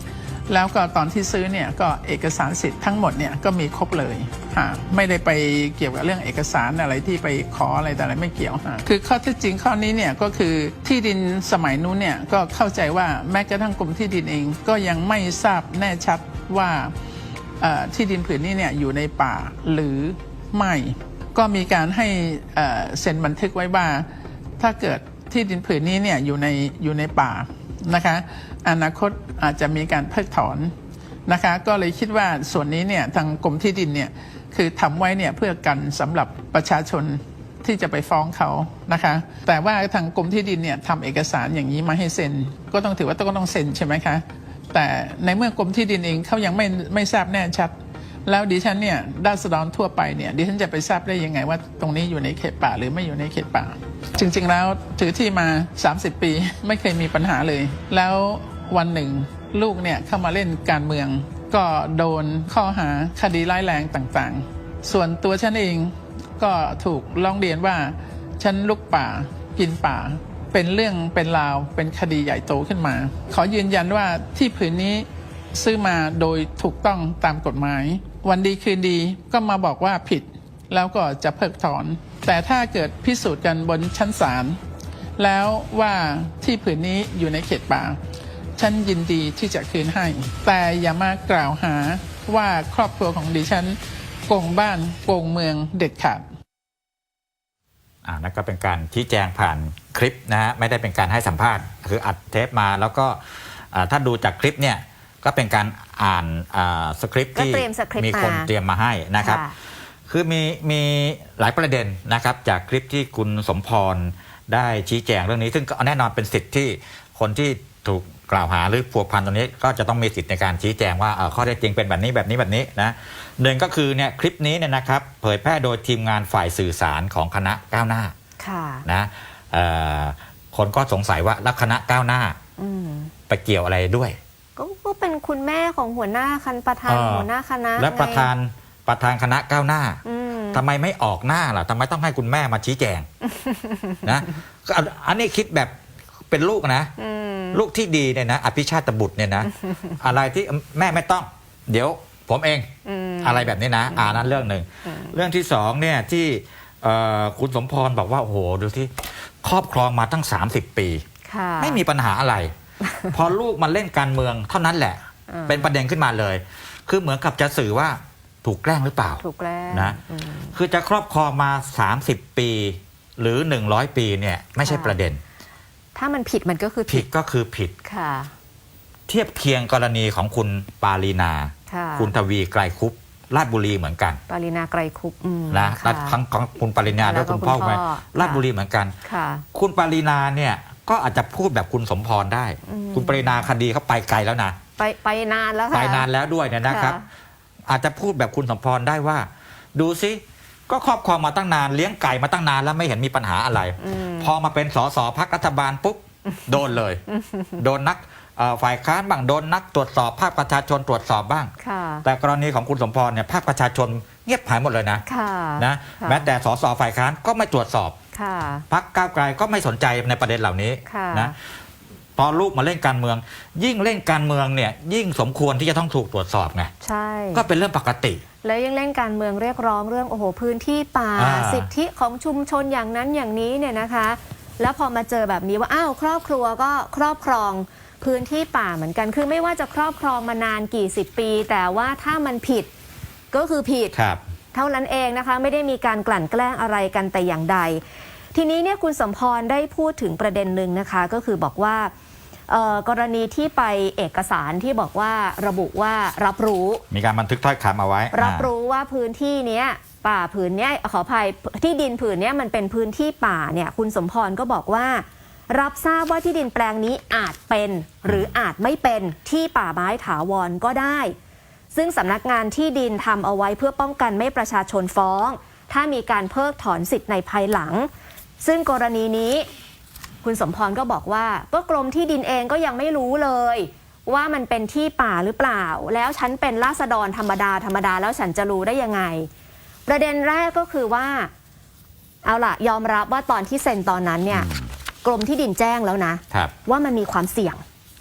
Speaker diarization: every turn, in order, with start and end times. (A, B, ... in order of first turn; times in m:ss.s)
0:00.5-0:16.9 A
0:17.6-0:24.1 A
0:24.6-0:30.7 A
0:31.3-0:47.8 A
0:48.3-1:24.6 A
1:25.2-1:28.0 A
1:28.6-1:36.2 A
1:38.0-1:43.2 B
1:43.7-1:49.4 B
1:47.4-1:48.5 C
1:49.2-1:49.5 C
1:50.1-2:08.1 B
2:08.4-2:08.8 C
2:08.9-2:12.4 B
2:12.6-2:13.1 C
2:13.3-2:14.2 B
2:14.6-2:18.3 C
2:16.9-2:20.0 B
2:20.0-2:20.6 C
2:20.5-2:23.1 B
2:23.3-2:24.0 C
2:24.0-2:25.7 B
2:26.3-2:26.9 B
2:27.0-2:27.6 C
2:27.5-2:32.7 B
2:32.9-2:34.3 C
2:33.2-2:41.0 B
2:41.3-2:41.8 C
2:41.6-2:42.5 B
2:43.1-2:50.0 B
2:45.3-2:45.7 C
2:49.2-2:50.6 C
2:50.5-2:55.2 B
2:54.6-2:55.0 C
2:56.0-2:57.1 C
2:56.9-2:57.7 B
2:57.8-2:58.3 C
2:59.1-3:04.2 B
3:01.7-3:02.1 C
3:04.3-3:06.2 C
3:05.5-3:08.9 B
3:07.0-3:08.4 C
3:09.0-3:09.4 C
3:09.5-3:14.6 B
3:12.7-3:13.5 C
3:14.8-3:16.1 C
3:15.7-3:17.0 B
3:16.6-3:17.1 C
3:17.7-3:27.0 B
3:23.8-3:24.3 C
3:27.1-3:27.6 C
3:27.6-3:31.5 B
3:31.6-3:32.0 C
3:32.0-3:35.0 B
3:35.1-3:36.3 C
3:35.6-3:38.0 B
3:38.1-3:38.6 C
3:38.7-3:41.4 B
3:40.9-3:41.3 C
3:42.2-3:46.7 B
3:46.8-3:47.4 C
3:47.3-3:48.2 B
3:48.4-4:02.7 C
3:51.2-3:51.7 B
4:03.3-4:03.9 C
4:03.9-4:04.2 B
4:04.5-4:07.8 C
4:08.3-4:11.9 C
4:12.5-4:16.8 C
4:16.9-4:18.5 B
4:18.1-4:31.2 C
4:31.7-4:37.9 C
4:38.4-4:39.5 C
4:40.2-4:49.3 C
4:49.9-4:51.3 C
4:52.2-4:54.5 C
4:54.3-4:54.7 B
4:55.0-4:57.6 C